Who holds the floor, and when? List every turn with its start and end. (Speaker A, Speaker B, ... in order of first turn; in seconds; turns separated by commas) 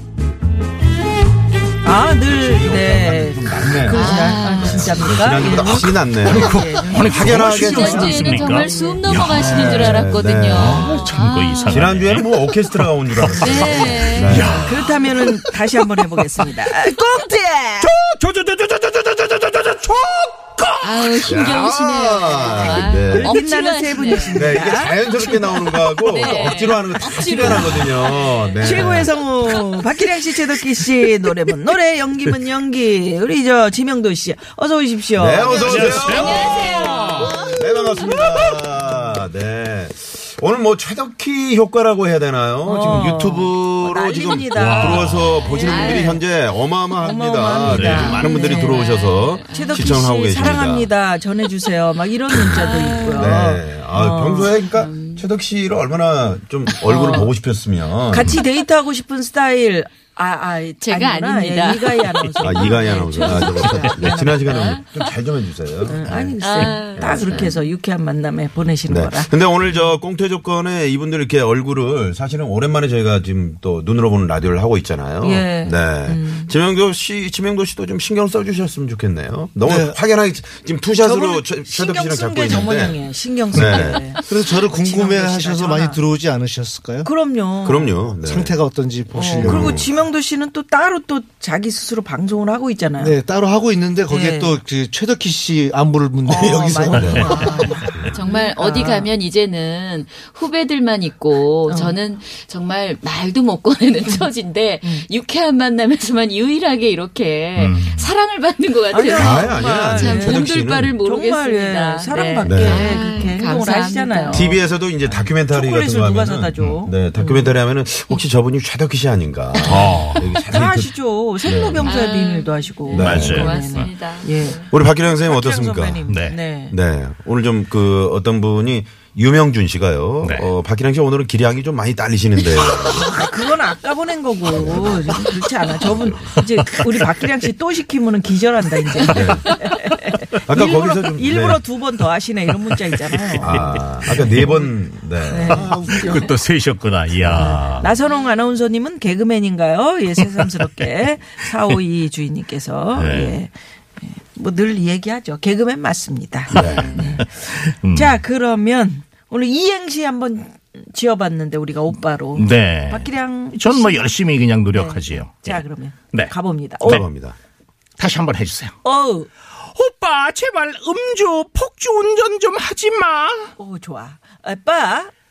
Speaker A: 1.8-9.0, Speaker B: 2.2-8.3, Speaker C: 3.9-5.1, Speaker D: 6.2-10.0, Speaker C: 7.5-11.9, Speaker B: 9.1-11.0, Speaker D: 10.6-13.6, Speaker B: 11.7-14.9, Speaker C: 13.4-14.5, Speaker D: 14.2-16.2, Speaker A: 14.5-17.9, Speaker D: 17.8-21.3, Speaker C: 20.8-24.6, Speaker B: 21.3-23.4, Speaker A: 22.6-24.9, Speaker B: 24.3-29.2, Speaker C: 25.2-28.6, Speaker A: 26.2-26.6, Speaker A: 27.3-37.5, Speaker B: 35.2-50.9, Speaker D: 35.5-38.8, Speaker C: 35.5-37.5, Speaker A: 42.6-46.2, Speaker D: 44.5-45.5, Speaker C: 45.6-46.2, Speaker A: 47.0-48.9, Speaker D: 47.7-48.2, Speaker C: 48.2-50.0, Speaker A: 49.5-54.5, Speaker B: 52.3-58.4, Speaker C: 52.4-53.3, Speaker C: 54.5-55.3, Speaker A: 56.8-57.3, Speaker C: 56.9-57.3, Speaker A: 58.1-64.8, Speaker C: 60.8-64.8, Speaker B: 62.4-67.6, Speaker A: 65.8-69.3, Speaker C: 66.4-67.5, Speaker B: 68.9-83.0, Speaker A: 75.2-76.5, Speaker E: 79.7-80.0, Speaker A: 81.0-86.0, Speaker B: 83.5-84.1, Speaker E: 84.2-87.1, Speaker A: 87.0-88.0, Speaker B: 87.6-88.6, Speaker E: 88.2-89.8, Speaker A: 89.1-93.2, Speaker B: 89.4-89.9, Speaker E: 93.0-97.9, Speaker A: 94.1-94.6, Speaker A: 96.3-99.1, Speaker B: 96.9-98.2, Speaker C: 97.3-114.5, Speaker A: 101.7-102.0, Speaker D: 107.6-108.1, Speaker A: 108.9-110.5, Speaker B: 109.1-111.0, Speaker A: 111.0-114.6, Speaker B: 112.4-113.0, Speaker B: 114.3-120.9, Speaker A: 115.5-117.5, Speaker D: 119.6-120.3, Speaker A: 120.4-126.8, Speaker B: 121.4-121.9, Speaker C: 121.8-124.6, Speaker B: 122.9-123.5, Speaker D: 123.0-123.9, Speaker B: 124.7-126.0, Speaker D: 126.1-126.4, Speaker B: 126.7-133.3, Speaker D: 130.2-130.5, Speaker A: 132.7-146.2, Speaker B: 134.4-136.3, Speaker B: 139.1-139.5, Speaker B: 140.5-141.6, Speaker D: 143.3-144.3, Speaker B: 143.4-145.7, Speaker D: 145.5-147.9, Speaker E: 145.5-146.3, Speaker B: 147.3-147.6, Speaker A: 147.3-157.3, Speaker D: 152.9-153.3, Speaker B: 156.5-157.1, Speaker D: 156.5-158.2, Speaker C: 156.7-157.1, Speaker A: 157.9-164.1, Speaker D: 162.3-166.3, Speaker A: 164.8-167.0, Speaker B: 166.8-167.3, Speaker D: 168.0-168.8, Speaker A: 168.8-169.3, Speaker D: 169.7-173.5, Speaker A: 173.6-175.1